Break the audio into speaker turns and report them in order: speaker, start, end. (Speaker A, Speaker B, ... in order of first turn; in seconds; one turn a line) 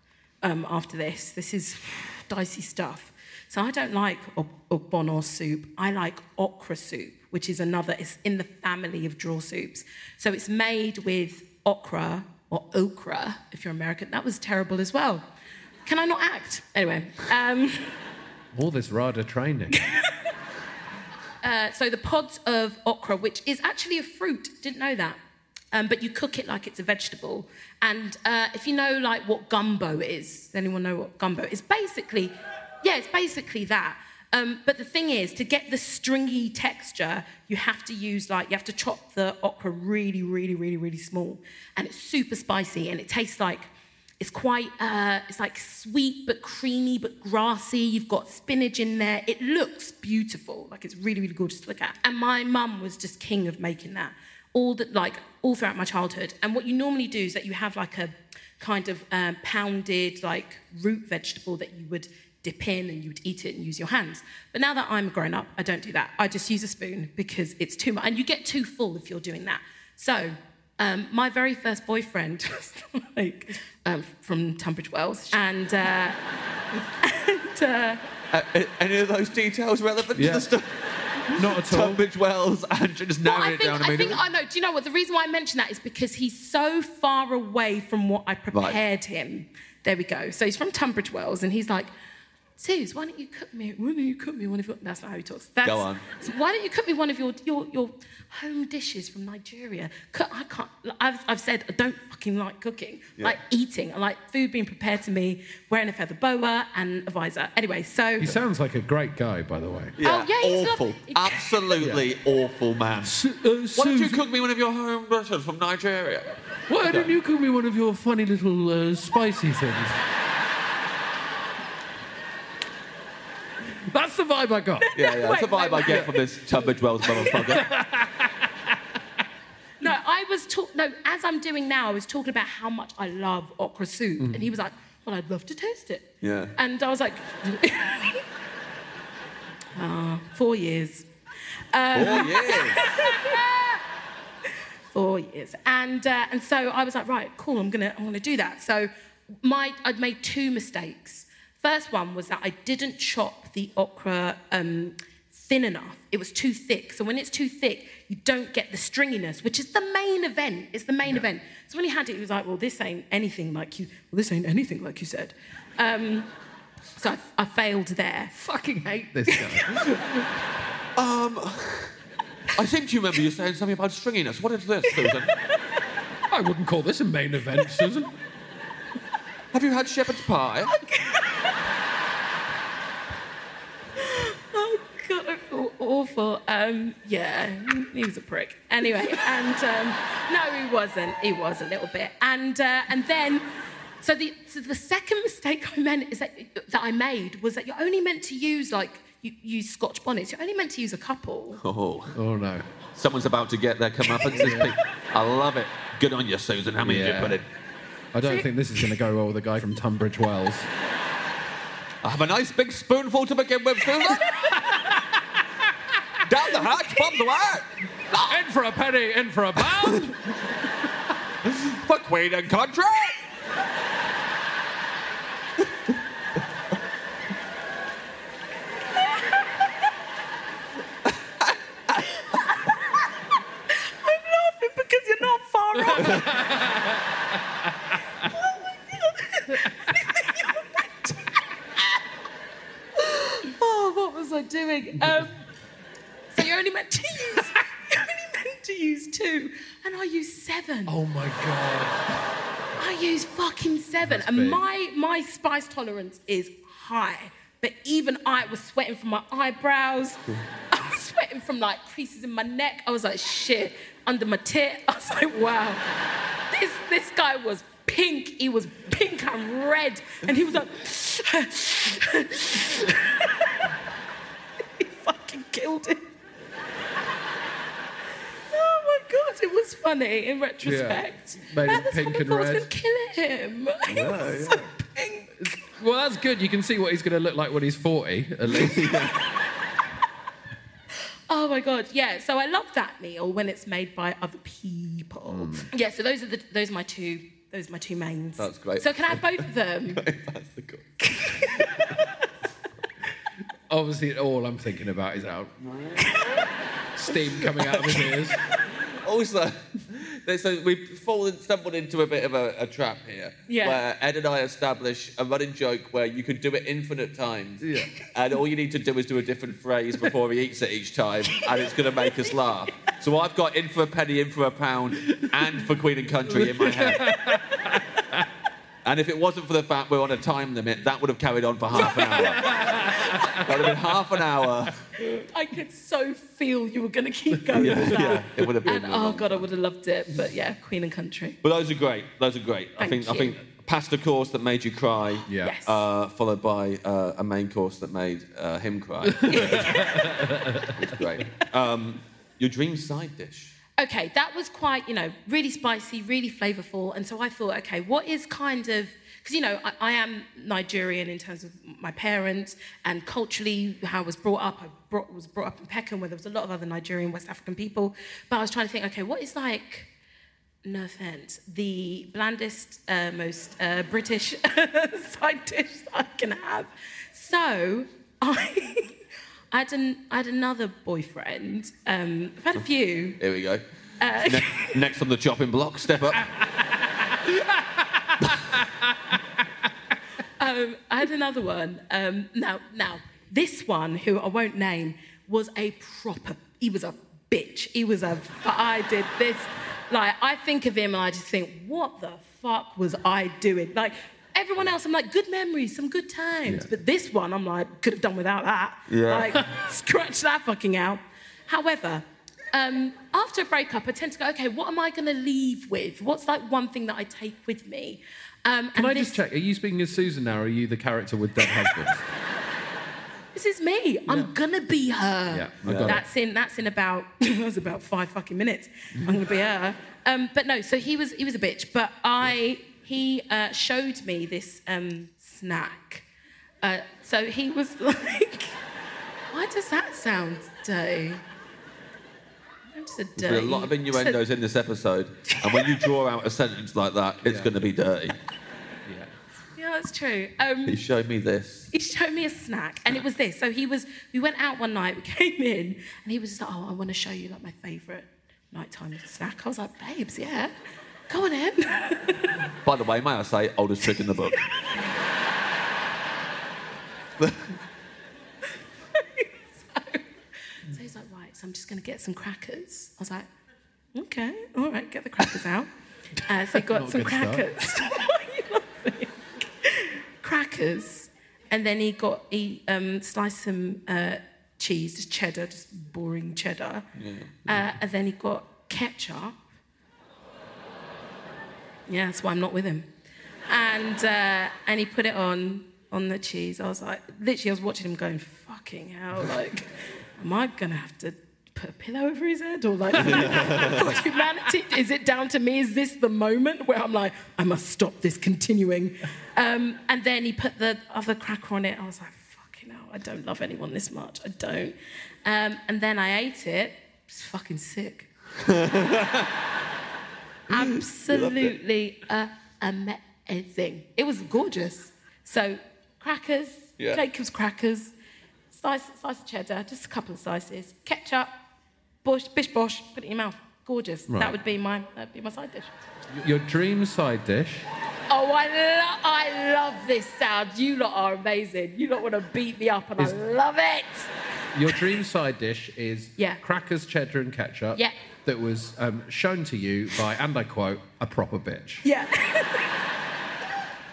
Speaker A: 0.4-15.3
Speaker A: 15.9-17.9
Speaker B: 18.5-19.9
Speaker A: 19.8-20.1
Speaker A: 21.4-25.2
Speaker A: 25.7-76.2
Speaker A: 77.0-78.0
Speaker C: 78.3-84.2
Speaker B: 80.2-80.5
Speaker B: 81.3-82.0
Speaker A: 83.2-91.9
Speaker C: 88.5-88.8
Speaker A: 92.6-108.4
Speaker C: 95.6-96.0
Speaker B: 108.2-110.0
Speaker C: 110.0-113.2
Speaker A: 110.0-111.7
Speaker B: 113.0-114.2
Speaker C: 113.8-116.3
Speaker B: 116.7-120.0
Speaker C: 116.8-117.1
Speaker B: 123.9-124.9
Speaker A: 124.8-126.2
Speaker C: 125.0-127.7
Speaker B: 127.6-128.5
Speaker A: 129.8-138.2
Speaker B: 134.2-134.5
Speaker C: 136.2-136.5
Speaker A: 139.8-141.1
Speaker A: 141.7-143.8
Speaker C: 141.9-142.8
Speaker A: 144.9-148.9
Speaker A: 149.4-166.3
Speaker A: 167.0-168.4
Speaker B: 168.4-169.8
Speaker A: 169.3-169.5
Speaker C: 169.8-170.2
Speaker C: 171.0-171.9
Speaker C: 172.6-175.3
Speaker B: 176.3-178.1
Speaker C: 179.5-180.7
Speaker A: 180.7-181.6
Speaker A: 184.0-193.5
Speaker A: 194.0-201.6
Speaker C: 201.6-202.1
Speaker B: 202.1-202.7
Speaker C: 202.9-207.4
Speaker B: 204.2-204.8
Speaker B: 206.8-207.4
Speaker B: 208.1-210.7
Speaker C: 212.0-214.5
Speaker B: 214.3-215.2
Speaker C: 216.3-217.7
Speaker B: 218.2-220.1
Speaker C: 219.8-220.1
Speaker C: 221.4-223.2
Speaker C: 231.4-232.0
Speaker A: 233.7-236.5
Speaker B: 235.9-237.0
Speaker A: 238.3-241.4
Speaker A: 243.0-245.4
Speaker A: 246.3-251.0
Speaker B: 250.9-252.0
Speaker A: 252.8-265.9
Speaker B: 254.1-254.6
Speaker A: 266.5-273.6
Speaker A: 274.8-276.0
Speaker A: 278.5-285.6
Speaker B: 280.6-282.7
Speaker C: 283.9-284.7
Speaker B: 285.4-288.9
Speaker C: 288.5-289.2
Speaker A: 291.3-300.0
Speaker B: 295.3-295.7
Speaker C: 298.4-301.7
Speaker A: 301.0-302.0
Speaker B: 303.7-305.5
Speaker C: 305.6-306.1
Speaker B: 307.0-308.4
Speaker C: 307.5-308.2
Speaker C: 308.9-327.1
Speaker A: 313.5-313.8
Speaker B: 317.6-317.9
Speaker B: 326.3-328.2
Speaker C: 328.9-332.6
Speaker A: 331.8-333.4
Speaker B: 331.9-333.5
Speaker C: 333.4-334.8
Speaker A: 335.0-341.4
Speaker B: 337.5-338.2
Speaker C: 337.5-339.5
Speaker C: 341.4-350.0
Speaker A: 342.8-343.4
Speaker B: 345.3-345.6
Speaker A: 345.3-345.8
Speaker B: 349.1-350.8
Speaker A: 349.3-350.1
Speaker C: 350.8-353.5
Speaker A: 353.8-369.9
Speaker A: 370.6-379.0
Speaker A: 379.5-383.2
Speaker C: 383.2-383.6
Speaker A: 384.0-384.8
Speaker C: 384.2-386.3
Speaker B: 387.3-388.7
Speaker A: 390.4-419.2
Speaker C: 408.9-409.4
Speaker B: 418.8-422.1
Speaker A: 423.3-436.1
Speaker B: 425.3-426.0
Speaker C: 425.6-426.0
Speaker A: 436.6-438.6
Speaker A: 439.3-441.2
Speaker A: 442.7-444.2
Speaker C: 443.2-448.2
Speaker A: 445.3-445.8
Speaker B: 447.2-447.5
Speaker B: 448.9-449.1
Speaker A: 449.6-450.8
Speaker C: 450.7-451.7
Speaker A: 451.7-460.5
Speaker A: 461.1-462.4
Speaker C: 462.6-464.4
Speaker C: 467.2-467.5
Speaker A: 468.9-470.0
Speaker A: 470.7-473.3
Speaker A: 473.9-475.7
Speaker A: 476.2-486.9
Speaker B: 476.6-477.5
Speaker C: 487.0-487.5
Speaker A: 487.5-489.4
Speaker A: 491.9-492.9
Speaker A: 493.5-518.1
Speaker C: 503.0-504.0
Speaker C: 518.4-519.3
Speaker A: 520.5-527.9
Speaker C: 520.5-521.5
Speaker A: 528.5-531.3
Speaker A: 532.0-535.7
Speaker B: 534.1-534.4
Speaker B: 536.1-537.7
Speaker A: 538.1-544.1
Speaker B: 544.5-551.8
Speaker A: 551.8-552.8